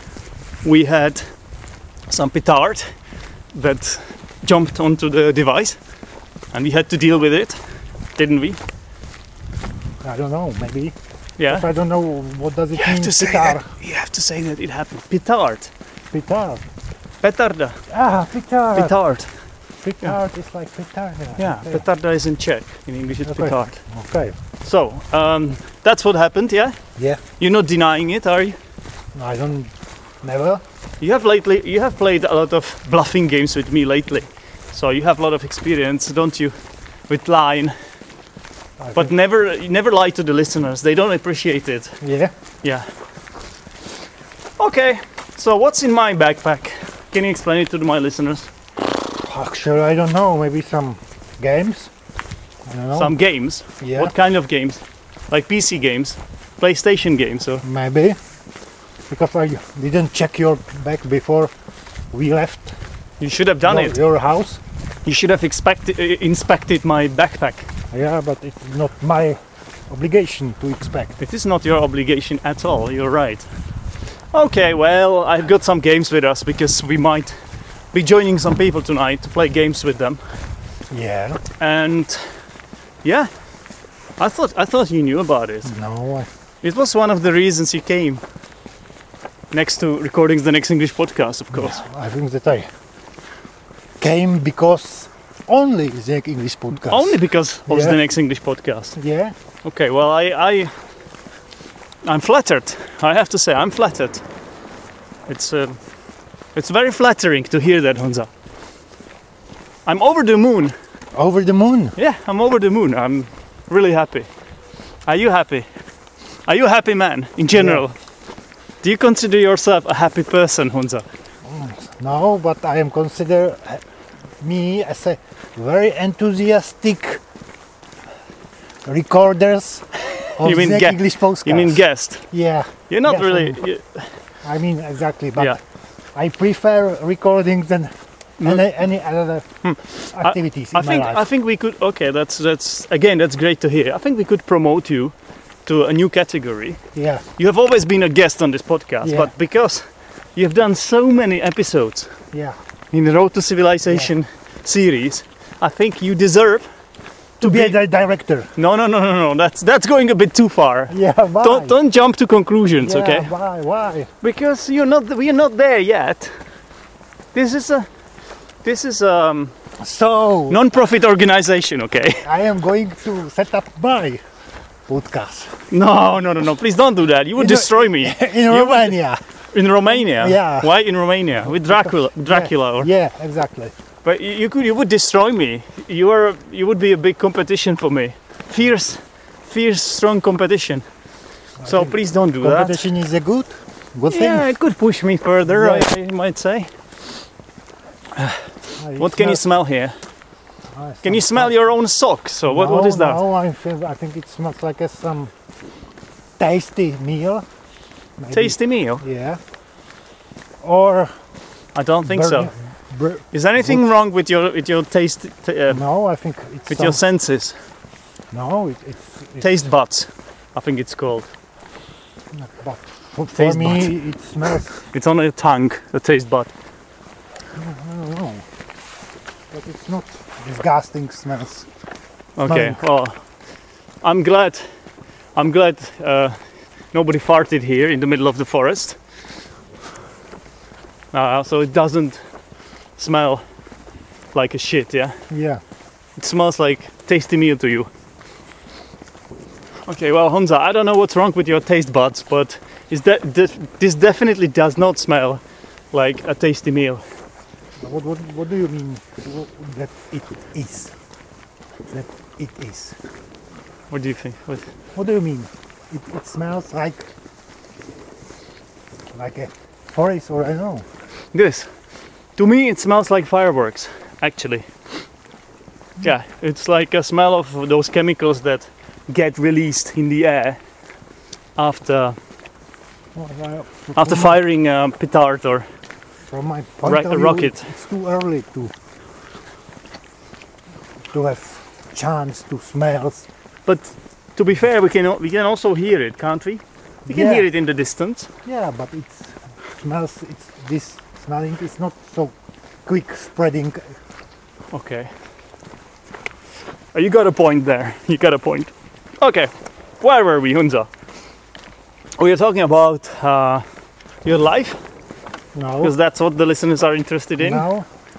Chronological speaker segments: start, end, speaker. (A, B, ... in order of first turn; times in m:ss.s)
0:00.6-0:01.3 A
0:02.1-0:02.9 A
0:03.5-0:05.8 A
0:06.5-0:07.6 A
0:08.2-0:08.6 A
0:10.0-0:11.0 B
0:11.4-0:11.7 A
0:11.5-0:13.7 B
0:12.8-0:15.7 A
0:16.1-0:16.6 B
0:17.2-0:17.8 A
0:17.9-0:19.0 B
0:18.7-0:19.3 A
0:19.8-0:21.8 B
0:21.4-0:23.8 A
0:23.2-0:24.4 B
0:24.6-0:26.8 A
0:27.4-0:28.6 A
0:29.2-0:30.6 B
0:31.0-0:36.6 A
0:37.1-0:37.8 A
0:38.8-0:39.1 B
0:39.0-0:42.0 A
0:42.0-0:42.3 B
0:42.6-0:42.9 A
0:44.6-0:48.5 A
0:49.1-0:51.9 B
0:52.7-0:53.2 B
0:53.0-0:57.6 A
0:53.8-0:54.1 B
0:57.6-0:58.2 B
0:59.1-1:01.5 B
1:02.1-1:02.8 B
1:03.2-1:04.0 A
1:03.6-1:04.6 B
1:05.0-1:07.7 A
1:07.9-1:11.2 B
1:11.2-1:13.5 A
1:14.3-1:17.4 A
1:17.9-1:20.2 A
1:20.9-1:21.4 B
1:21.6-1:22.3 A
1:23.0-1:23.3 A
1:24.2-1:25.7 A
1:25.6-1:26.3 B
1:26.6-1:28.2 A
1:29.5-1:31.8 A
1:31.5-1:32.7 B
1:34.0-1:38.0 B
1:36.9-1:39.0 A
1:39.0-1:39.4 B
1:39.6-1:40.7 A
1:42.0-1:44.2 A
1:45.3-1:45.8 A
1:46.6-1:48.3 A
1:49.9-1:50.8 A
1:51.1-1:51.9 B
1:52.0-1:54.3 A
1:55.1-1:55.7 A
1:56.5-1:58.0 A
1:57.5-1:57.8 B
1:58.8-2:01.0 A
2:01.4-2:03.8 B
2:04.4-2:07.2 B
2:08.8-2:09.9 B
2:10.2-2:12.2 A
2:10.4-2:13.6 B
2:12.9-2:14.1 A
2:14.4-2:15.6 B
2:16.2-2:19.5 B
2:19.6-2:25.1 A
2:20.1-2:21.3 B
2:25.7-2:26.8 A
2:27.0-2:27.2 B
2:27.4-2:32.2 A
2:29.0-2:29.3 B
2:32.3-2:32.6 B
2:32.9-2:36.7 A
2:37.4-2:37.8 A
2:37.4-2:38.5 B
2:38.6-2:43.3 A
2:40.9-2:41.8 B
2:42.8-2:44.1 B
2:44.2-2:46.4 A
2:47.3-2:47.9 A
2:48.6-2:49.5 A
2:49.8-2:50.7 B
2:50.5-2:52.3 A
2:52.2-2:54.2 B
2:54.9-2:55.6 B
2:55.7-2:59.0 A
2:57.4-2:59.2 B
2:59.5-3:02.9 A
2:59.9-3:00.7 B
3:01.5-3:03.7 B
3:04.0-3:10.9 A
3:11.6-3:14.5 B
3:11.6-3:12.9 A
3:14.1-3:16.7 A
3:15.5-3:15.9 B
3:18.2-3:18.4 A
3:18.8-3:19.4 B
3:19.0-3:20.0 A
3:20.7-3:21.6 B
3:21.0-3:23.2 A
3:22.5-3:25.3 B
3:26.4-3:27.5 B
3:28.2-3:29.4 B
3:28.3-3:29.0 A
3:30.6-3:31.1 B
3:31.8-3:32.5 A
3:32.0-3:33.8 B
3:33.3-3:35.8 A
3:35.7-3:37.0 B
3:36.7-3:37.6 A
3:38.3-3:39.5 B
3:39.4-3:41.3 A
3:42.3-3:44.8 B
3:43.3-3:43.9 A
3:44.9-3:46.5 A
3:47.5-3:48.4 B
3:49.5-3:51.7 B
3:52.4-3:53.2 A
3:52.5-3:52.8 B
3:54.0-3:54.7 A
3:55.4-3:56.4 A
3:56.9-3:59.0 A
4:01.1-4:02.2 A
4:03.0-4:03.4 A
4:04.3-4:05.2 A
4:05.3-4:05.6 B
4:06.2-4:07.9 A
4:09.9-4:17.0 A
4:17.8-4:20.9 B
4:21.9-4:23.0 B
4:23.9-4:24.6 A
4:25.0-4:27.1 B
4:29.1-4:30.9 B
4:31.3-4:31.7 A
4:32.4-4:34.7 A
4:36.0-4:40.6 A
4:41.6-4:42.2 A
4:43.2-4:44.4 B
4:44.0-4:45.7 A
4:46.3-4:48.7 B
4:46.8-4:47.7 A
4:51.1-4:53.3 B
4:53.7-4:58.3 A
4:57.1-4:57.5 B
4:58.4-5:02.4 B
5:02.9-5:04.0 B
5:04.7-5:05.1 A
5:06.9-5:10.9 A
5:12.2-5:13.6 A
5:14.2-5:14.8 A
5:15.6-5:16.0 B
5:15.8-5:17.7 A
5:17.4-5:17.9 B